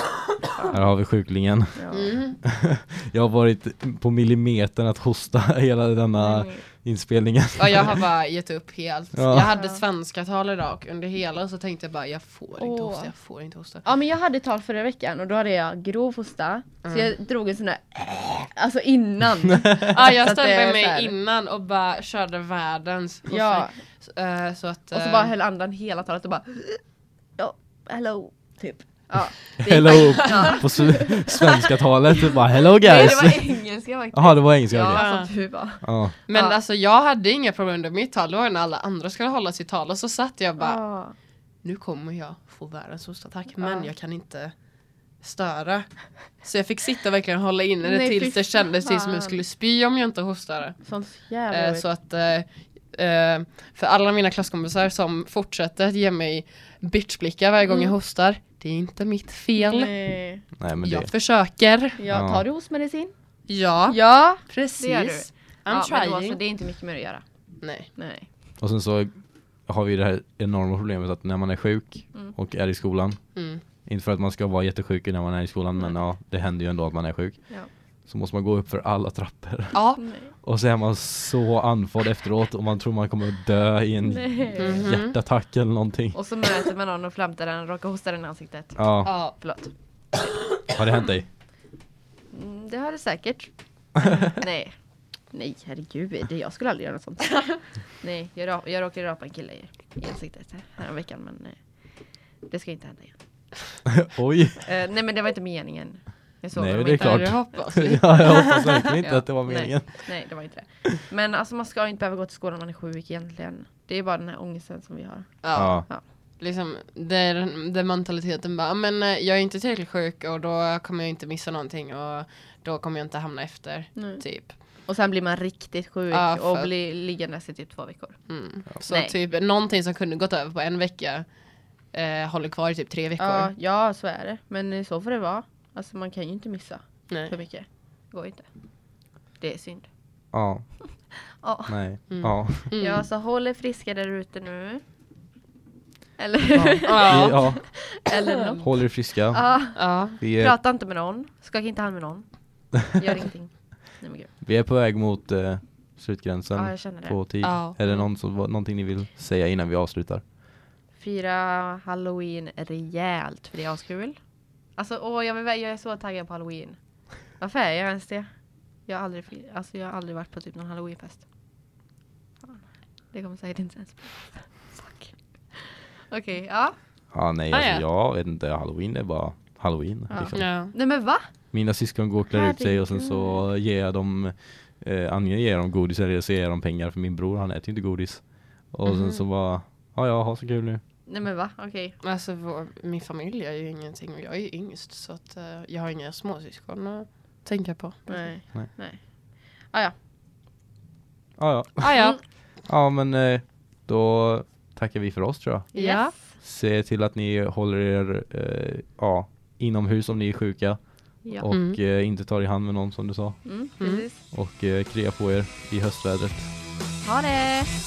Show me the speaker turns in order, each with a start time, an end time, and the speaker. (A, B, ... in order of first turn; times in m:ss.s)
0:00.7-0:01.8 A
0:01.8-0:02.2 B
0:01.9-0:02.4 C
0:02.4-0:08.0 A
0:06.2-0:06.6 B
0:07.6-0:13.8 C
0:09.1-0:09.5 A
0:09.5-0:09.8 B
0:12.6-0:13.1 B
0:13.8-0:21.1 B
0:16.8-0:17.1 C
0:19.9-0:25.3 C
0:23.3-0:23.7 B
0:24.9-0:26.8 B
0:27.4-0:36.6 B
0:29.6-0:33.6 A
0:29.9-0:30.5 C
0:34.1-0:35.0 A
0:34.9-0:35.3 C
0:35.8-0:36.2 A
0:36.3-0:40.8 C
0:40.6-0:41.1 B
0:41.6-0:44.5 C
0:43.6-0:43.9 B
0:45.2-0:50.8 C
0:47.8-0:49.4 B
0:50.8-0:51.8 B
0:51.5-0:59.9 C
0:57.7-0:57.9 B
0:59.6-1:00.4 B
1:00.6-1:01.1 A
1:00.8-1:02.0 C
1:02.0-1:03.1 B
1:02.1-1:02.4 A
1:03.5-1:06.4 C
1:03.9-1:07.2 B
1:07.6-1:07.9 C
1:07.9-1:08.3 B
1:08.6-1:09.2 A
1:09.7-1:13.2 A
1:13.4-1:13.6 C
1:13.8-1:17.4 A
1:18.1-1:19.8 A
1:19.7-1:20.0 C
1:20.0-1:20.3 B
1:20.4-1:26.2 A
1:24.1-1:24.9 B
1:24.6-1:25.2 C
1:26.1-1:29.7 B
1:28.8-1:29.1 A
1:29.0-1:29.3 C
1:30.7-1:31.3 A
1:32.3-1:34.7 B
1:35.3-1:41.6 B
1:42.4-1:43.2 B
1:43.9-1:44.7 A
1:44.6-1:47.6 B
1:46.5-1:50.2 A
1:47.0-1:48.9 C
1:49.0-1:56.0 B
1:55.4-2:04.6 C
1:55.5-1:55.8 A
2:04.0-2:08.3 B
2:06.1-2:06.7 C
2:08.3-2:11.3 C
2:08.8-2:09.1 B
2:11.9-2:13.5 C
2:13.2-2:18.5 B
2:19.4-2:19.9 B
2:20.3-2:20.6 A
2:20.8-2:21.8 B
2:21.7-2:22.7 A
2:22.1-2:23.0 C
2:22.8-2:24.8 B
2:26.2-2:34.3 B
2:26.5-2:27.8 A
2:26.8-2:27.5 C
2:28.6-2:30.6 A
2:29.8-2:30.2 C
2:34.4-2:40.2 A
2:36.5-2:37.2 B
2:37.4-2:37.9 C
2:41.0-2:44.2 B
2:44.8-2:46.8 B
2:47.4-2:48.3 B
2:48.9-2:51.2 B
2:52.4-2:56.8 B
2:57.1-3:00.5 A
2:57.5-2:57.8 C
3:00.1-3:01.3 B
3:00.3-3:00.7 C
3:01.5-3:10.8 A
3:02.3-3:03.4 B
3:08.8-3:09.2 C
3:11.0-3:12.0 B
3:12.0-3:18.3 C
3:18.1-3:19.0 B
3:19.6-3:19.9 B
3:21.4-3:33.4 A
3:21.8-3:22.2 C
3:25.7-3:26.4 B
3:25.7-3:26.1 C
3:31.2-3:31.5 B
3:31.5-3:31.8 C
3:33.4-3:34.2 B
3:33.8-3:34.0 C
3:34.3-3:36.5 A
3:37.0-3:37.7 B